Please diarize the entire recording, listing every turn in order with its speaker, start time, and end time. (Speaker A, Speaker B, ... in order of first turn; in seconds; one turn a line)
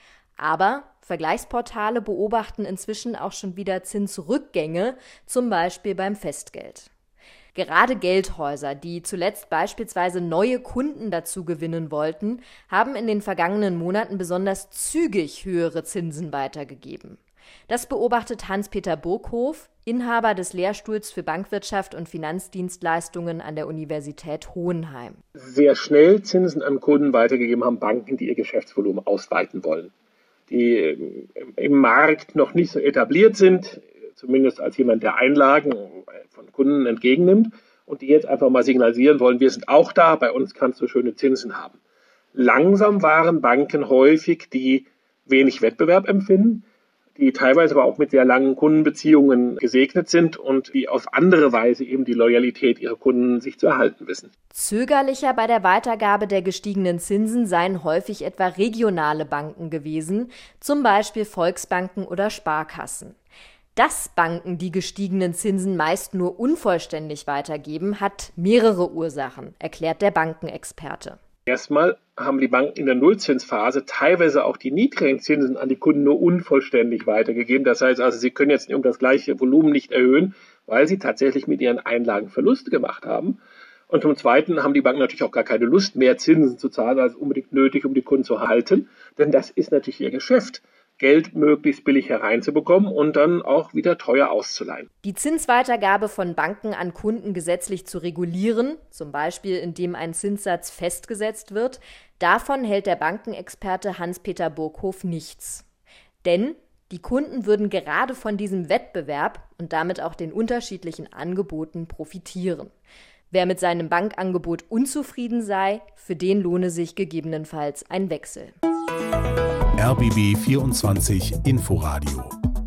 Speaker A: 0.4-6.9
Speaker A: 7.5-25.2
Speaker B: 25.4-29.9
Speaker B: 30.5-41.8
Speaker B: 42.4-54.3
Speaker A: 54.5-63.2
Speaker A: 63.7-71.2
Speaker B: 71.5-83.4
Speaker B: 83.9-94.9
Speaker A: 95.0-105.7
Speaker A: 106.2-112.7
Speaker A: 113.3-118.5
Speaker C: 119.8-122.3